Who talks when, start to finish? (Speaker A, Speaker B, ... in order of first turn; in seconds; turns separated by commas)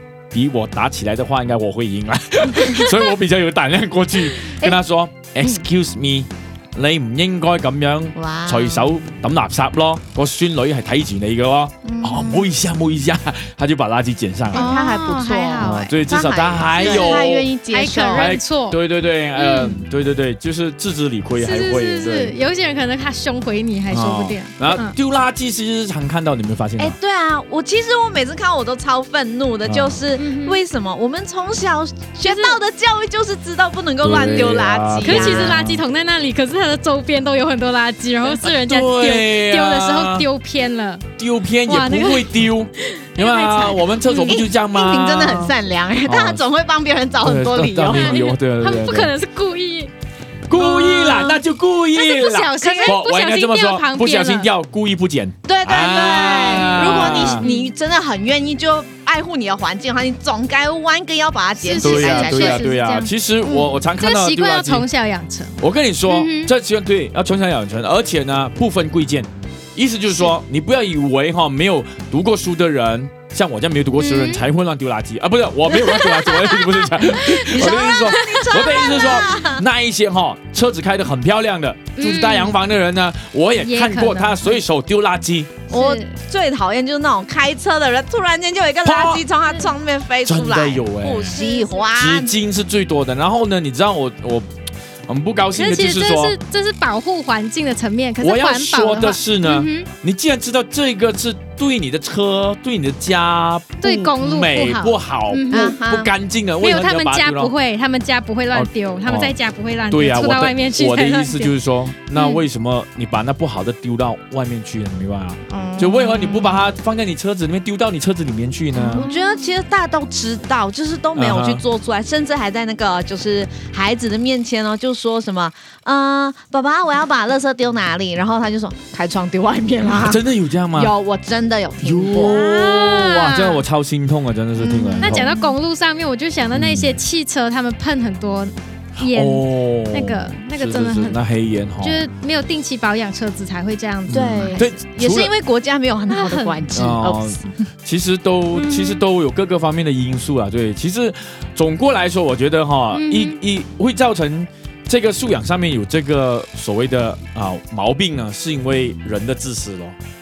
Speaker A: 0.3-14.7, Speaker B: 4.4-4.8, Speaker B: 8.1-8.9, Speaker B: 11.8-12.4, Speaker B: 14.5-18.3, Speaker C: 14.5-15.9, Speaker A: 15.6-17.5, Speaker C: 16.8-18.8, Speaker A: 18.1-22.3, Speaker C: 19.4-19.8, Speaker C: 21.4-24.9, Speaker A: 23.9-26.9, Speaker B: 26.8-35.6, Speaker A: 29.6-30.0, Speaker C: 30.2-30.6, Speaker C: 32.2-32.6, Speaker A: 34.0-35.8, Speaker C: 35.0-41.1, Speaker A: 38.4-40.2, Speaker A: 41.2-45.5, Speaker C: 41.6-44.4, Speaker B: 44.2-48.2, Speaker A: 46.0-46.4, Speaker A: 47.2-49.1, Speaker C: 47.9-49.9, Speaker A: 50.5-57.5, Speaker C: 50.5-51.4, Speaker C: 51.9-54.5, Speaker B: 52.6-53.0, Speaker B: 55.5-62.7, Speaker C: 56.6-57.7, Speaker C: 61.6-63.1, Speaker A: 61.8-64.8, Speaker B: 63.4-63.7, Speaker C: 64.0-66.5, Speaker A: 65.6-85.6, Speaker C: 74.0-74.4, Speaker C: 75.7-79.1, Speaker B: 77.3-79.6, Speaker C: 82.0-82.5, Speaker C: 83.6-84.6, Speaker C: 85.7-86.1, Speaker B: 85.7-92.3, Speaker A: 88.8-89.2, Speaker A: 90.2-91.4, Speaker C: 91.3-91.8, Speaker A: 92.0-94.5, Speaker A: 95.1-96.3, Speaker C: 95.5-99.9, Speaker A: 98.2-107.5, Speaker C: 103.8-105.7, Speaker B: 105.5-106.1, Speaker C: 106.6-111.5, Speaker A: 108.5-109.3, Speaker A: 109.9-119.0, Speaker C: 112.1-112.4, Speaker C: 115.5-116.6, Speaker B: 118.8-130.2, Speaker C: 118.8-119.5, Speaker A: 121.1-121.6, Speaker A: 129.8-130.9, Speaker B: 130.7-132.8, Speaker A: 131.8-135.3, Speaker C: 132.2-133.6, Speaker B: 134.6-135.5, Speaker C: 135.0-141.2, Speaker A: 136.5-137.0, Speaker A: 139.0-142.0, Speaker C: 141.8-144.7, Speaker A: 144.1-145.3, Speaker B: 144.1-147.4, Speaker C: 146.1-146.6, Speaker A: 146.7-159.9, Speaker C: 148.5-149.0, Speaker C: 152.9-153.4